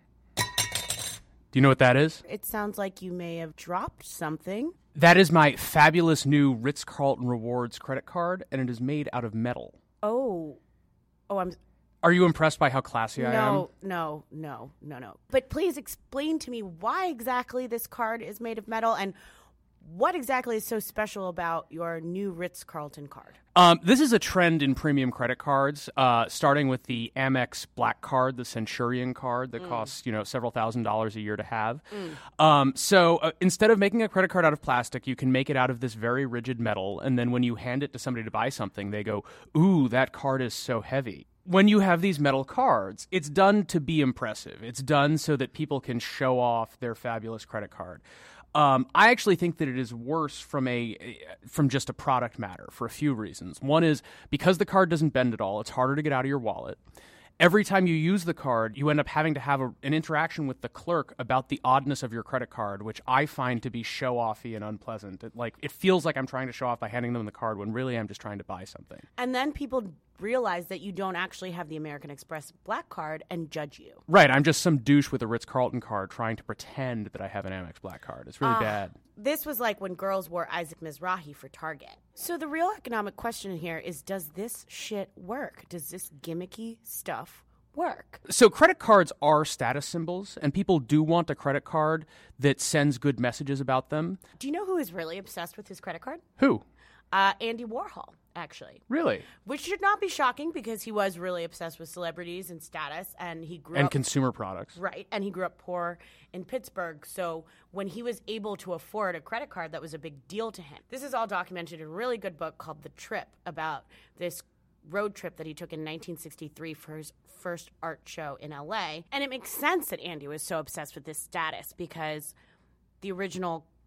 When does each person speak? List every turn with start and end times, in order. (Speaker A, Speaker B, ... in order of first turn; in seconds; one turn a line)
Speaker A: 1.5-2.2
Speaker B: 2.2-4.8
Speaker A: 4.9-9.8
Speaker B: 10.0-10.6
Speaker B: 11.3-11.6
Speaker A: 12.0-13.7
Speaker B: 13.2-19.2
Speaker B: 19.8-23.4
Speaker A: 23.5-48.0
Speaker A: 48.5-56.8
Speaker A: 57.4-69.0
Speaker B: 69.2-74.0
Speaker A: 74.1-78.9
Speaker B: 78.4-88.2
Speaker A: 88.3-94.2
Speaker B: 94.4-96.2
Speaker A: 96.4-96.6
Speaker B: 97.1-98.8
Speaker A: 98.9-99.2
Speaker B: 99.4-104.0
Speaker A: 103.7-104.8
Speaker B: 104.8-122.3
Speaker B: 123.0-123.7